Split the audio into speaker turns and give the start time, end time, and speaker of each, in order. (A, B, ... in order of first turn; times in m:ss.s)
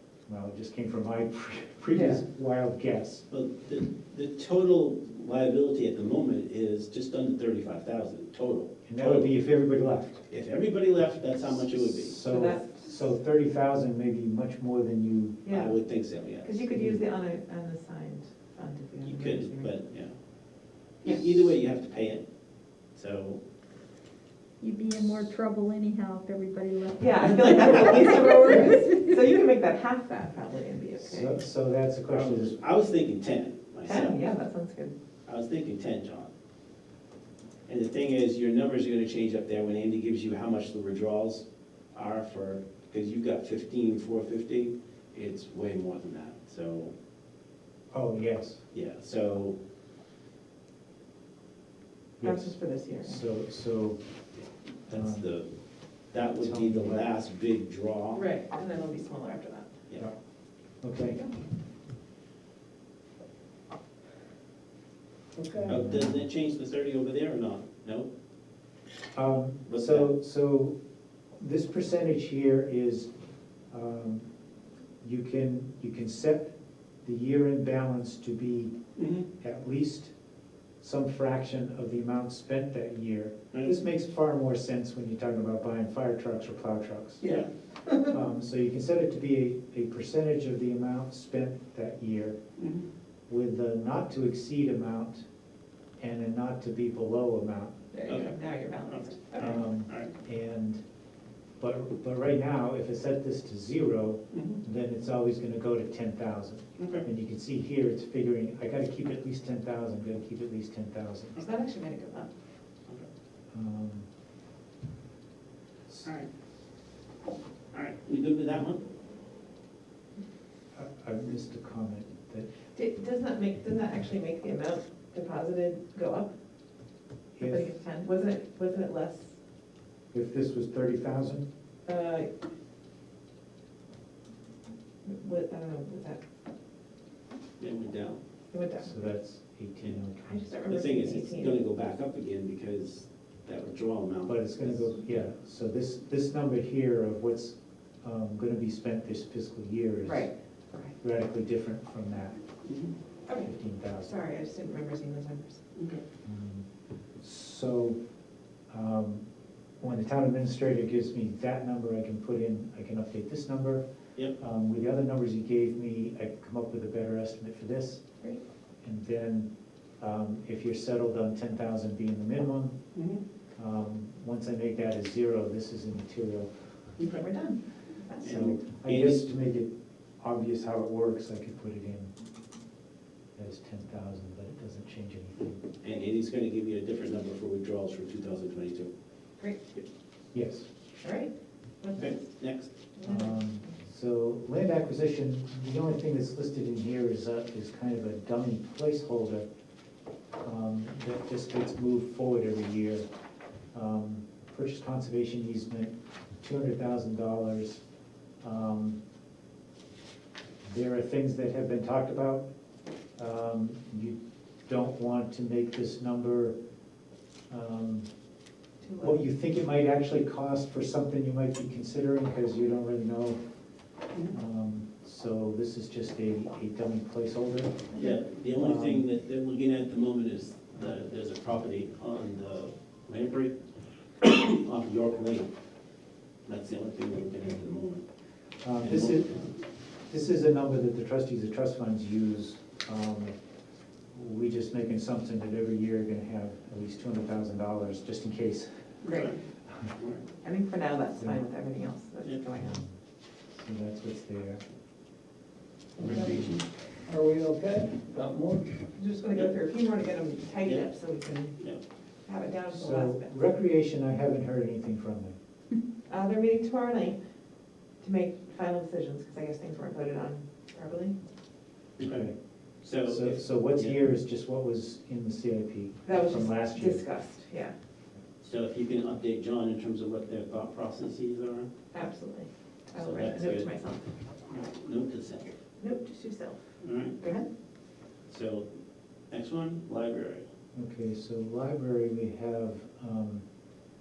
0:00.3-0:03.2 A
0:01.9-0:02.2 B
0:03.3-0:09.3 C
0:08.9-0:10.2 A
0:10.3-0:12.2 C
0:11.7-0:15.4 A
0:12.3-0:12.8 B
0:15.4-0:15.8 B
0:15.5-0:16.6 C
0:16.4-0:19.7 B
0:16.7-0:17.0 A
0:19.0-0:20.2 C
0:21.0-0:22.2 C
0:22.9-0:23.4 C
0:24.6-0:29.1 D
0:27.0-0:31.4 B
0:31.0-0:32.6 A
0:32.1-0:34.2 C
0:33.8-0:35.0 B
0:35.3-0:36.3 C
0:37.7-0:46.9 C
0:47.9-0:48.6 A
0:48.7-0:49.6 C
0:52.2-0:54.0 A
0:52.2-0:53.2 B
0:54.9-0:55.2 A
0:54.9-0:55.5 C
0:56.1-0:58.2 C
0:56.4-0:57.1 A
0:58.1-0:59.7 B
1:00.8-1:01.2 A
1:01.1-1:01.4 B
1:05.4-1:05.8 E
1:05.6-1:06.2 A
1:05.7-1:08.1 C
1:09.1-1:10.8 A
1:09.7-1:10.1 C
1:11.4-1:13.1 A
1:13.7-1:14.3 A
1:15.0-1:18.7 A
1:19.0-1:19.3 C
1:19.4-1:20.1 A
1:20.8-1:27.3 A
1:27.2-1:27.5 C
1:27.9-1:32.4 A
1:32.6-1:32.9 C
1:33.3-1:35.3 A
1:36.0-1:37.8 A
1:37.9-1:39.6 B
1:38.1-1:40.1 C
1:39.4-1:40.8 A
1:41.6-1:51.4 A
1:44.3-1:44.6 C
1:46.8-1:47.1 C
1:51.4-1:52.3 B
1:53.5-1:54.1 A
1:57.7-1:58.8 C
2:00.8-2:02.5 A
2:02.8-2:06.3 B
2:07.4-2:07.7 A
2:07.4-2:09.4 B
2:10.1-2:11.5 A
2:11.9-2:12.3 B
2:15.0-2:16.2 B
2:17.6-2:18.2 C
2:18.5-2:18.9 B
2:18.8-2:20.6 A
2:20.2-2:21.6 B
2:20.7-2:25.2 C
2:24.3-2:30.3 A
2:30.0-2:30.9 B
2:31.0-2:32.4 A
2:32.6-2:32.9 C
2:33.3-2:35.6 B
2:33.4-2:34.1 A
2:35.8-2:36.0 C
2:36.2-2:36.7 A
2:37.2-2:38.0 A
2:38.7-2:39.3 A
2:39.8-2:43.8 A
2:44.4-2:48.0 A
2:48.8-2:52.8 A
2:52.9-2:53.2 C
2:53.6-2:56.5 A
2:57.0-2:58.5 B
2:58.2-2:59.2 C
2:58.2-3:02.1 A
3:03.4-3:05.6 A
3:05.8-3:08.9 C
3:09.4-3:09.8 B
3:10.3-3:10.7 A
3:11.0-3:12.3 B
3:11.9-3:12.7 C
3:13.0-3:13.7 B
3:13.0-3:19.5 A
3:20.4-3:23.1 A
3:23.7-3:27.8 A
3:28.4-3:29.0 A
3:30.6-3:32.5 A
3:33.2-3:36.6 A
3:37.5-3:38.1 A
3:38.8-3:39.2 B
3:39.0-3:43.4 A
3:44.3-3:47.9 A
3:48.0-3:53.6 C
3:48.6-3:49.1 A
3:54.2-3:55.5 C
3:56.5-3:58.0 C
3:58.6-3:59.4 A
3:58.8-3:59.5 C
4:00.1-4:03.3 A
4:04.1-4:09.0 A
4:09.0-4:09.4 C
4:09.0-4:09.3 B
4:10.0-4:10.2 C
4:10.4-4:12.8 B
4:12.6-4:13.0 A
4:13.5-4:14.6 A
4:16.0-4:16.5 A
4:16.0-4:16.6 C
4:17.0-4:18.8 E
4:18.9-4:21.6 B
4:22.3-4:23.4 B
4:22.7-4:25.4 A
4:26.1-4:27.2 B
4:28.0-4:31.2 B
4:32.0-4:32.3 C
4:32.0-4:32.4 A
4:32.8-4:34.0 C
4:33.0-4:37.0 A
4:36.1-4:37.7 B
4:38.4-4:41.7 C
4:41.9-4:44.1 B
4:43.0-4:43.7 C
4:44.5-4:45.5 C
4:45.8-4:46.6 B
4:46.8-4:47.2 C
4:47.2-4:47.5 B
4:48.3-4:48.7 C
4:49.3-4:50.4 C
4:50.8-4:53.4 A